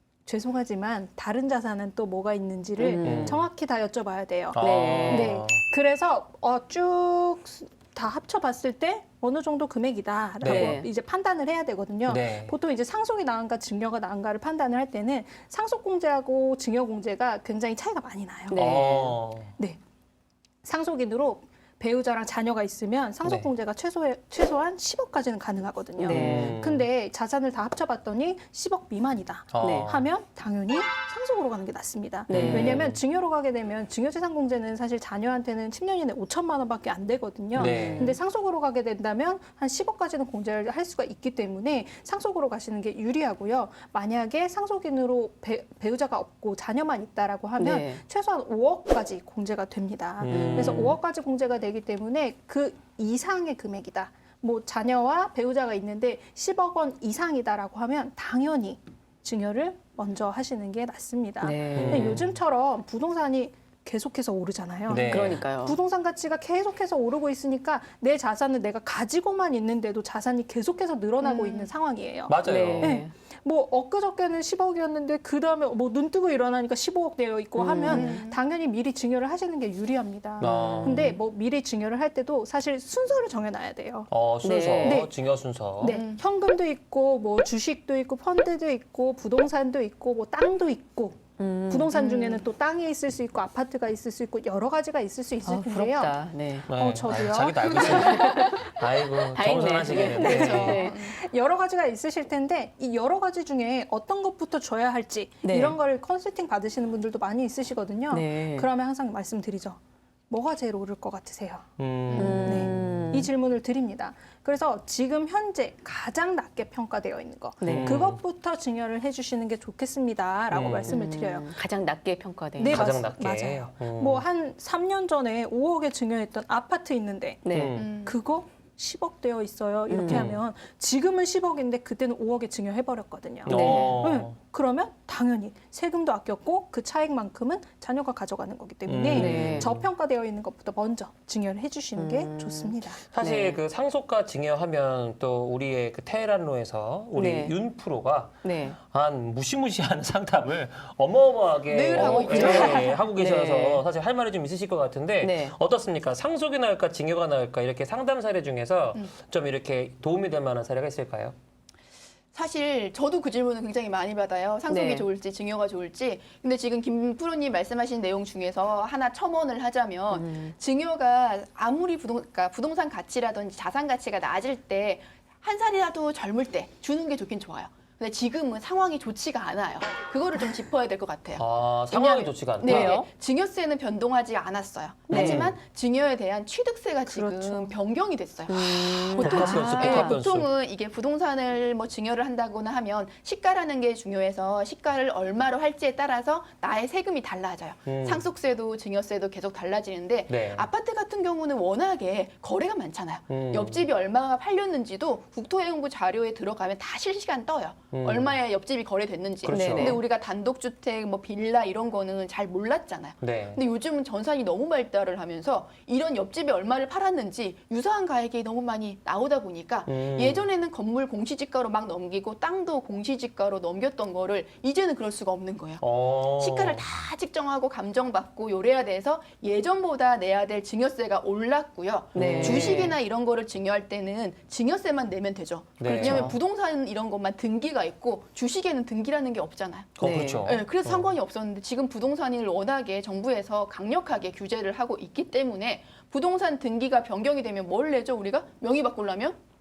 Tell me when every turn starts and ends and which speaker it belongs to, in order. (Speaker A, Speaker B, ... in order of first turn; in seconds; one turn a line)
Speaker A: 0.2-18.7
Speaker B: 2.8-3.3
Speaker C: 3.0-3.5
Speaker C: 4.5-5.6
Speaker B: 4.6-5.4
Speaker C: 10.4-10.8
Speaker B: 10.4-10.9
Speaker C: 12.1-12.6
Speaker B: 18.5-19.2
Speaker C: 18.5-19.5
Speaker A: 20.6-84.1
Speaker C: 23.2-23.5
Speaker B: 26.0-26.6
Speaker C: 26.1-26.9
Speaker C: 29.5-30.1
Speaker B: 29.6-29.9
Speaker B: 32.3-32.9
Speaker C: 32.3-33.0
Speaker C: 37.5-38.1
Speaker B: 37.5-38.2
Speaker B: 47.6-48.0
Speaker C: 50.2-50.9
Speaker B: 50.3-51.0
Speaker B: 61.4-62.2
Speaker C: 61.7-62.2
Speaker C: 64.9-65.4
Speaker B: 64.9-65.8
Speaker D: 71.2-71.7
Speaker C: 72.3-73.0
Speaker B: 72.4-73.1
Speaker B: 77.6-78.2
Speaker D: 77.8-78.4
Speaker C: 80.4-81.1
Speaker B: 80.5-81.2
Speaker C: 84.1-86.0
Speaker B: 84.4-85.0
Speaker A: 84.8-85.1
Speaker A: 85.8-98.7
Speaker D: 85.8-86.2
Speaker B: 91.4-92.4
Speaker D: 91.9-92.4
Speaker B: 95.4-96.7
Speaker C: 96.7-100.8
Speaker B: 97.8-98.7
Speaker B: 99.3-101.0
Speaker D: 99.9-101.2
Speaker A: 99.9-121.5
Speaker B: 105.4-105.8
Speaker B: 108.1-108.7
Speaker C: 111.8-112.8
Speaker B: 112.1-113.3
Speaker B: 117.6-118.0
Speaker C: 117.6-118.2
Speaker C: 120.5-121.0
Speaker B: 120.9-122.9
Speaker A: 122.6-143.0
Speaker C: 122.6-124.2
Speaker B: 127.4-127.7
Speaker C: 127.5-127.9
Speaker D: 127.7-128.2
Speaker B: 129.9-130.3
Speaker C: 130.0-130.4
Speaker C: 133.4-134.3
Speaker B: 133.5-133.9
Speaker C: 138.9-139.9
Speaker B: 139.1-139.7
Speaker B: 141.9-143.6
Speaker C: 143.1-161.3
Speaker B: 147.2-147.6
Speaker B: 148.4-148.8
Speaker D: 151.7-153.0
Speaker B: 151.9-152.6
Speaker A: 152.3-152.9
Speaker B: 153.1-153.8
Speaker B: 155.2-155.6
Speaker D: 162.3-249.4
Speaker B: 164.7-165.1
Speaker B: 170.1-170.5
Speaker C: 181.3-183.0
Speaker B: 182.6-183.1
Speaker B: 185.1-185.5
Speaker C: 185.1-185.5
Speaker A: 187.1-187.6
Speaker B: 187.2-187.5
Speaker B: 188.5-190.2
Speaker C: 189.2-190.5
Speaker C: 197.9-198.3
Speaker C: 200.3-200.7
Speaker C: 203.3-203.8
Speaker C: 207.9-208.3
Speaker C: 209.4-210.0
Speaker B: 209.5-210.0
Speaker C: 213.2-213.6
Speaker C: 219.9-220.4
Speaker C: 225.8-226.8
Speaker C: 232.1-232.8
Speaker B: 232.1-233.0
Speaker C: 235.8-236.3
Speaker B: 235.8-236.4
Speaker C: 240.0-241.1
Speaker B: 240.0-240.5